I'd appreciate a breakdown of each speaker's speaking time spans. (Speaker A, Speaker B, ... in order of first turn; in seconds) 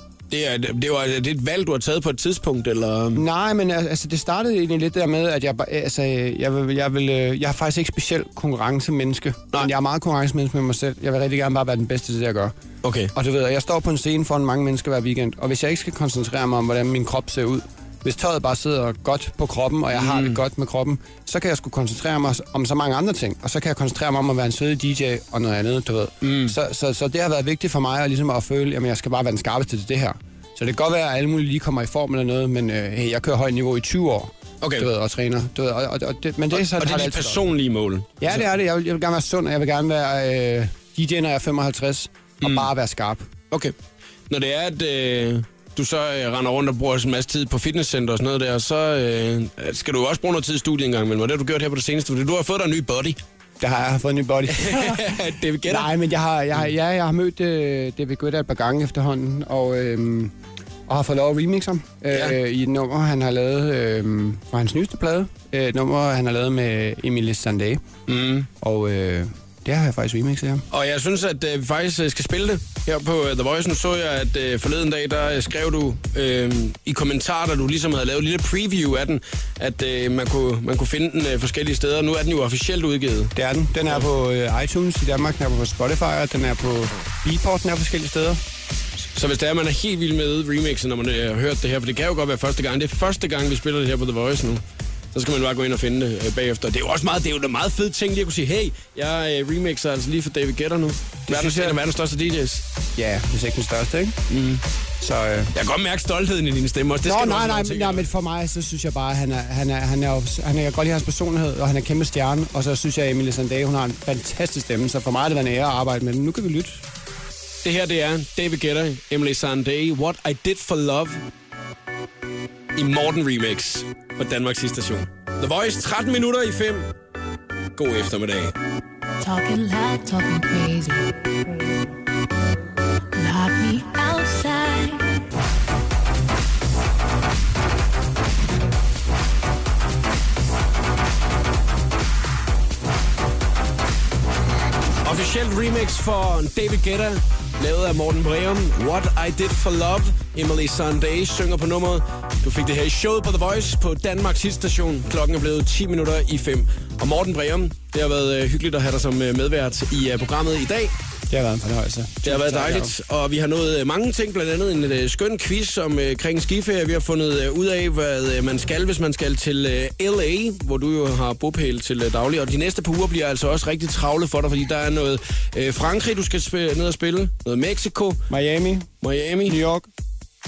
Speaker A: 0.3-3.2, 12.8-13.1, 19.9-20.4, 26.2-26.6, 34.6-34.9, 36.5-38.5, 42.4-42.7, 44.3-53.2, 54.5-55.9, 62.1-62.4, 68.1-68.5, 70.7-83.3, 89.2-94.6, 95.1-102.7, 104.3-104.6, 105.5-108.0, 117.6-121.2, 122.8-126.9, 127.8-128.5, 145.0-160.9, 162.2-178.2, 179.0-179.6
Speaker B: 3.1-12.5, 13.1-37.5, 38.2-43.2, 53.6-60.3, 60.9-67.8, 68.6-70.7, 83.4-88.4, 101.3-101.8, 103.0-104.2, 105.0-105.5, 107.0-116.8, 161.3-162.9, 178.3-178.9, 179.5-179.9
Speaker C: 129.2-131.1, 133.2-135.0